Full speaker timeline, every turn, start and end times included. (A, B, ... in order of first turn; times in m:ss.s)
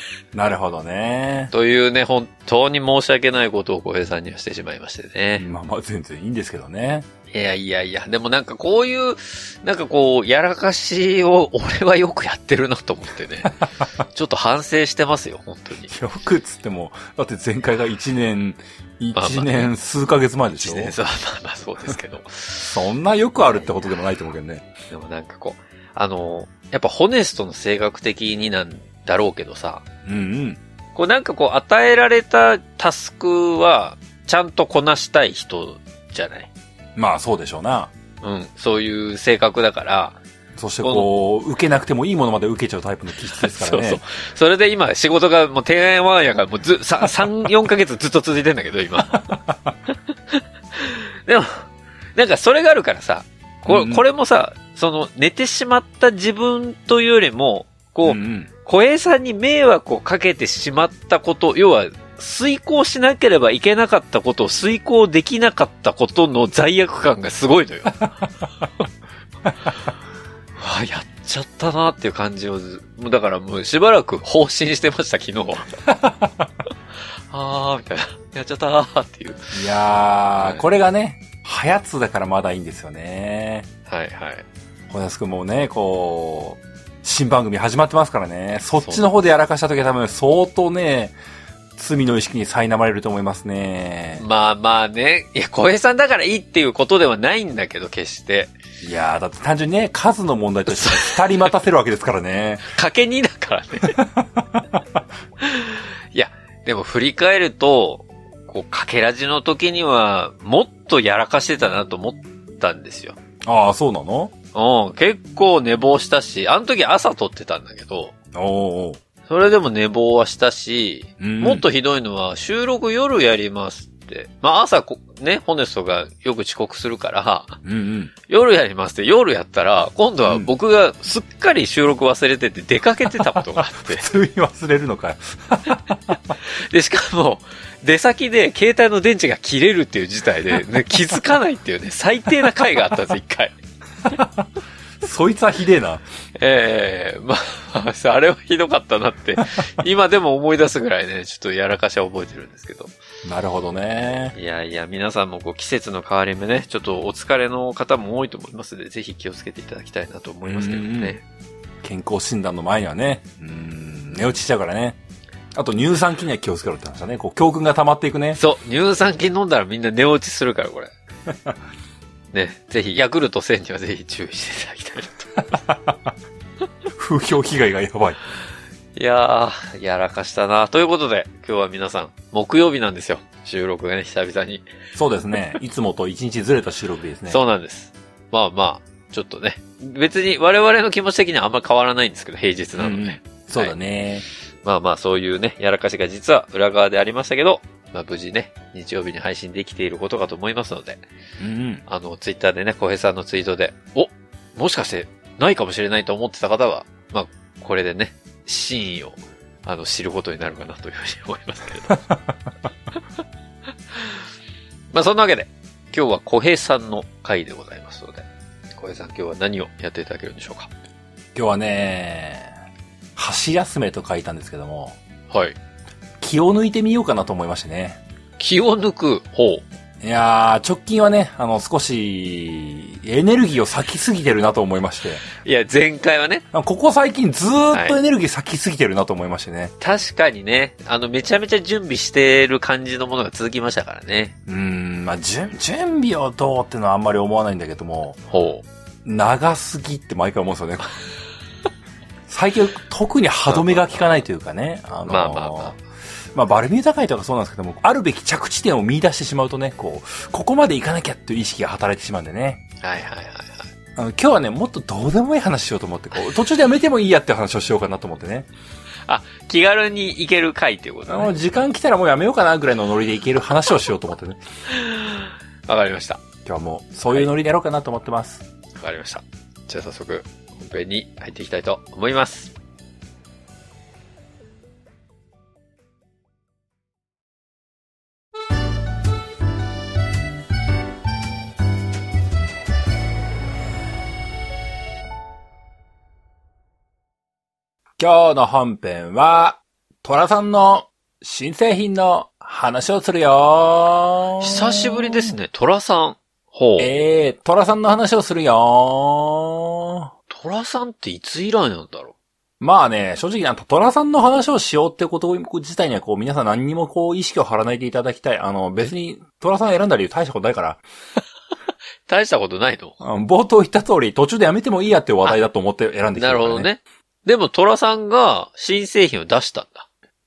0:00.3-0:01.5 A
0:01.5-0:05.5 B
0:05.4-0:07.1 A
0:07.3-0:15.9 B
0:15.9-0:21.0 A
0:19.1-0:19.7 B
0:20.5-0:22.8 B
0:22.7-0:24.7 A
0:23.4-0:23.7 B
0:24.9-0:29.8 B
0:30.0-0:30.6 A
0:30.9-0:36.5 B
0:37.0-0:37.9 A
0:38.2-0:40.2 B
0:40.6-0:44.0 A
0:40.8-0:41.1 B
0:43.3-0:49.3 B
0:49.1-0:49.7 A
0:50.3-1:08.1 B
0:53.7-0:54.0 A
0:58.0-0:58.5 A
1:10.6-1:15.7 B
1:15.8-1:16.5 A
1:17.3-1:19.6 B
1:19.5-1:23.7 A
1:20.4-1:20.6 B
1:23.9-1:24.4 B
1:24.9-1:31.2 A
1:28.8-1:29.0 B
1:31.8-1:34.2 A
1:34.2-1:38.5 B
1:38.8-1:42.7 A
1:40.7-1:41.5 B
1:42.6-1:44.0 B
1:43.9-1:44.8 A
1:45.4-1:53.2 B
1:53.4-1:54.3 A
1:54.5-1:58.1 B
1:58.3-1:59.0 A
1:59.3-2:07.6 B
2:01.2-2:01.6 A
2:07.6-2:08.1 A
2:08.3-2:14.1 B
2:13.2-2:16.4 A
2:16.4-2:23.6 B
2:24.0-2:24.5 A
2:25.0-2:26.0 A
2:26.4-2:32.9 B
2:33.2-2:34.3 A
2:34.3-2:41.2 B
2:40.4-2:41.1 A
2:41.8-2:45.0 A
2:45.5-2:48.4 A
2:48.4-2:50.9 B
2:52.3-2:55.4 B
2:55.6-2:56.1 A
2:57.0-2:58.2 A
2:58.9-3:04.6 B
3:04.9-3:07.4 A
3:07.3-3:13.7 B
3:12.8-3:14.2 A
3:14.6-3:21.0 B
3:21.4-3:21.8 A
3:21.8-3:32.0 B
3:34.9-3:40.7 B
3:41.3-3:42.5 A
3:43.2-3:45.0 A
3:45.3-3:45.6 B
3:46.2-3:48.0 A
3:48.4-3:49.6 B
3:50.0-3:55.3 A
3:55.4-3:56.4 B
3:56.5-3:59.7 A
3:57.7-3:58.0 B
3:59.8-4:04.3 B
4:04.5-4:08.2 A
4:08.3-4:08.6 B
4:09.0-4:10.9 A
4:12.3-4:15.8 A
4:13.5-4:14.0 B
4:15.1-4:15.8 B
4:16.3-4:22.6 A
4:22.8-4:23.7 B
4:24.0-4:28.5 A
4:29.1-4:31.3 B
4:31.1-4:34.4 A
4:34.7-4:36.2 B
4:36.4-4:38.4 A
4:38.8-4:42.5 B
4:58.0-5:05.3 A
5:04.4-5:06.9 B
5:06.8-5:10.1 A
5:10.3-5:12.1 B
5:12.6-5:20.8 A
5:22.1-5:23.0 B
5:23.0-5:26.7 A
5:26.2-5:29.9 B